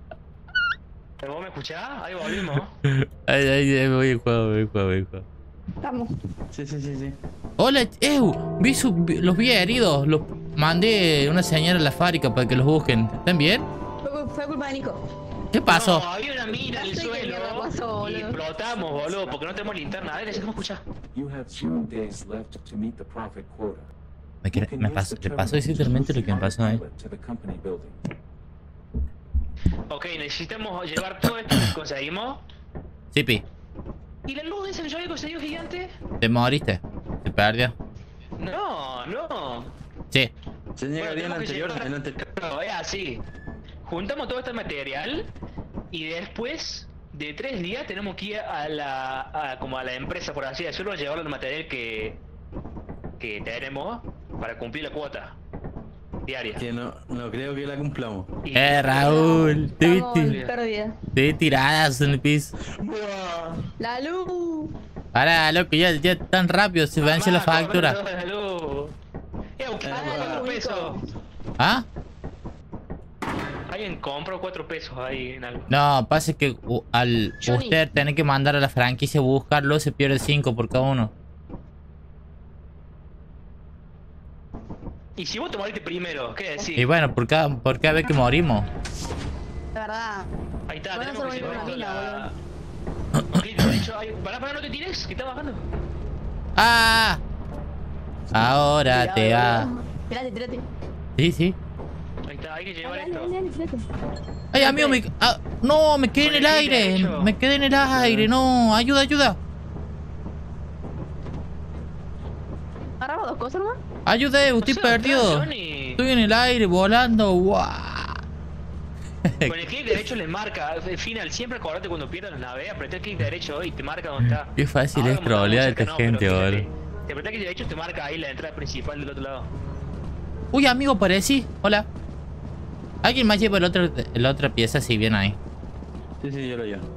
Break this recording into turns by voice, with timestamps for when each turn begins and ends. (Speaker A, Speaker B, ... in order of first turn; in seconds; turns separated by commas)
Speaker A: 1.2-2.7, Speaker B: 2.8-5.2, Speaker C: 5.8-6.1, Speaker D: 6.5-7.2, Speaker B: 7.6-13.6, Speaker C: 14.0-15.0, Speaker B: 15.5-16.0, Speaker A: 15.7-20.8, Speaker C: 16.7-18.4, Speaker E: 18.6-19.8, Speaker E: 21.1-23.9, Speaker B: 24.4-26.8, Speaker E: 24.5-28.0, Speaker A: 29.9-32.4, Speaker B: 33.1-33.4, Speaker A: 34.3-35.9, Speaker B: 36.2-37.7, Speaker A: 38.4-39.7, Speaker D: 40.8-42.2, Speaker A: 41.0-43.2, Speaker A: 43.8-45.3, Speaker A: 45.9-52.2, Speaker A: 53.2-55.4, Speaker A: 56.2-56.6, Speaker D: 56.6-58.3, Speaker A: 58.4-60.5, Speaker B: 58.5-60.4, Speaker C: 58.9-60.9, Speaker B: 61.1-62.5, Speaker D: 62.7-63.6, Speaker C: 63.8-64.7, Speaker B: 65.1-68.0, Speaker A: 67.0-68.9, Speaker A: 69.6-71.0, Speaker D: 69.8-70.5, Speaker C: 69.9-71.0, Speaker B: 71.6-71.8, Speaker A: 73.7-75.7, Speaker B: 75.7-81.1, Speaker C: 77.4-77.8, Speaker A: 85.2-86.8, Speaker B: 86.8-88.7, Speaker C: 89.7-90.3, Speaker A: 90.7-92.3, Speaker C: 90.9-92.3, Speaker A: 93.3-95.6, Speaker B: 96.6-97.2, Speaker B: 98.3-99.7, Speaker C: 98.8-100.7, Speaker B: 101.2-101.5, Speaker A: 102.3-103.3, Speaker C: 102.8-103.8, Speaker B: 104.5-109.4, Speaker C: 104.5-105.0, Speaker A: 106.2-107.3, Speaker D: 107.9-108.3, Speaker C: 113.0-113.8, Speaker B: 114.0-118.2, Speaker A: 114.6-116.0, Speaker B: 119.2-119.7, Speaker A: 119.5-129.5, Speaker B: 124.5-126.7, Speaker B: 130.5-131.8, Speaker B: 133.0-135.4, Speaker D: 136.2-136.8